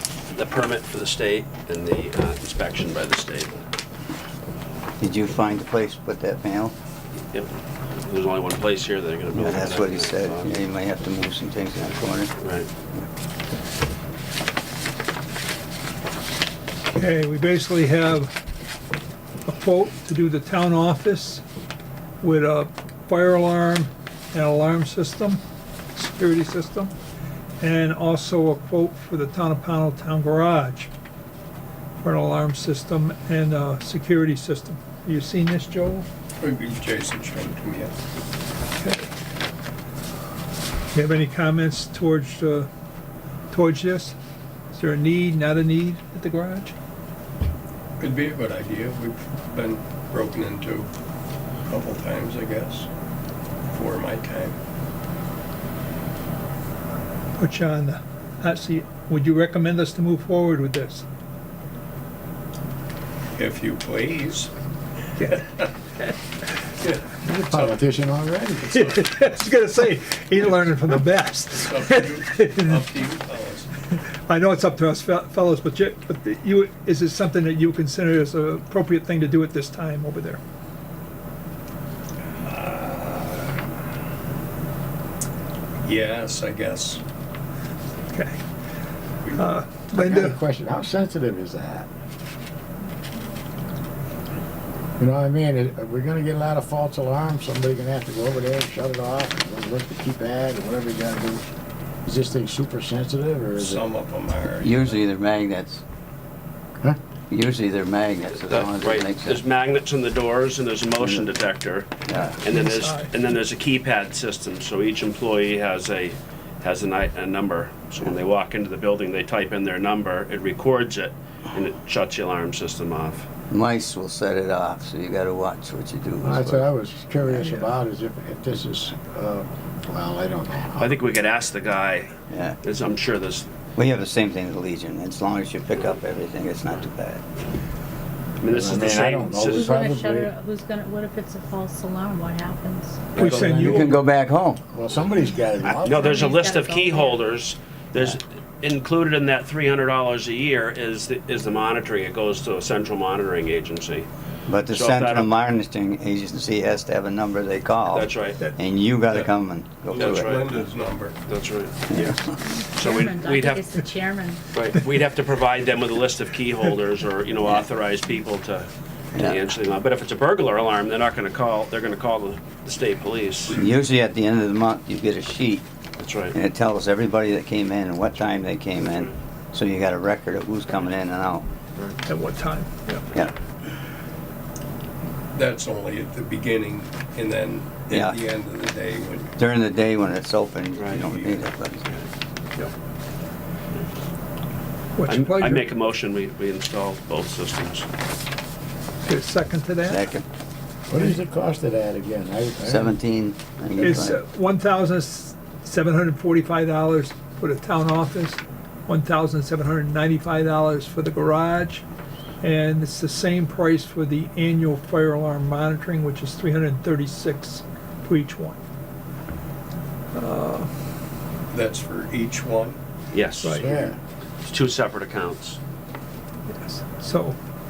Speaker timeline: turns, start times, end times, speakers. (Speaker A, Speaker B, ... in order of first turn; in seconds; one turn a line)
Speaker A: 0.3-3.6
Speaker B: 5.0-6.7
Speaker A: 7.3-10.6
Speaker B: 9.3-12.3
Speaker A: 12.4-12.7
Speaker C: 16.9-18.3
Speaker C: 19.5-21.4
Speaker C: 22.2-25.4
Speaker C: 25.9-26.9
Speaker C: 27.6-30.9
Speaker C: 32.0-36.1
Speaker D: 36.4-37.9
Speaker C: 38.8-39.1
Speaker C: 40.9-42.7
Speaker C: 43.5-44.2
Speaker C: 44.7-46.7
Speaker D: 48.0-50.9
Speaker D: 51.7-52.9
Speaker D: 53.7-54.6
Speaker C: 57.4-61.0
Speaker D: 63.4-64.5
Speaker D: 66.8-67.8
Speaker E: 67.2-69.0
Speaker C: 68.7-72.8
Speaker D: 71.6-73.7
Speaker C: 74.3-80.4
Speaker D: 82.4-83.6
Speaker D: 85.8-87.0
Speaker C: 88.1-88.4
Speaker D: 89.2-89.5
Speaker C: 89.3-90.4
Speaker E: 89.9-91.9
Speaker E: 95.0-101.4
Speaker E: 102.1-103.9
Speaker D: 103.6-105.0
Speaker B: 104.6-105.8
Speaker B: 107.3-109.4
Speaker A: 108.5-123.3
Speaker B: 111.0-111.3
Speaker B: 112.1-112.4
Speaker C: 112.5-113.2
Speaker B: 123.5-126.7
Speaker E: 126.2-130.9
Speaker B: 127.2-127.7
Speaker A: 130.8-132.1
Speaker B: 132.3-132.6
Speaker A: 132.6-133.5
Speaker B: 133.8-137.2
Speaker A: 138.4-139.7
Speaker E: 138.5-140.3
Speaker F: 139.4-143.2
Speaker A: 143.1-143.6
Speaker C: 143.2-143.9
Speaker E: 143.2-144.0
Speaker B: 143.6-144.6
Speaker E: 144.7-146.3
Speaker F: 145.8-147.2
Speaker A: 145.8-154.1
Speaker B: 154.5-160.4
Speaker A: 154.7-155.3
Speaker A: 157.9-158.4
Speaker D: 159.1-161.2
Speaker A: 160.0-160.6
Speaker A: 161.3-161.8
Speaker B: 161.9-162.2
Speaker C: 161.9-162.2
Speaker F: 162.6-164.4
Speaker A: 162.8-163.7
Speaker A: 164.5-173.6
Speaker B: 169.1-169.4
Speaker B: 173.5-175.7
Speaker A: 176.0-176.3
Speaker B: 176.3-181.4
Speaker C: 182.1-183.1
Speaker D: 185.3-189.4
Speaker B: 187.9-188.2
Speaker B: 189.4-191.8
Speaker A: 190.8-191.1
Speaker D: 190.9-191.4
Speaker C: 195.0-195.7
Speaker A: 195.1-197.9
Speaker C: 199.1-200.1
Speaker B: 199.8-200.2
Speaker E: 200.9-203.0
Speaker B: 202.7-204.2
Speaker C: 203.8-211.8
Speaker C: 212.4-218.6
Speaker C: 220.1-220.7
Speaker D: 221.5-222.8
Speaker A: 223.1-223.9
Speaker E: 223.6-224.0
Speaker A: 224.4-225.6
Speaker C: 226.5-227.4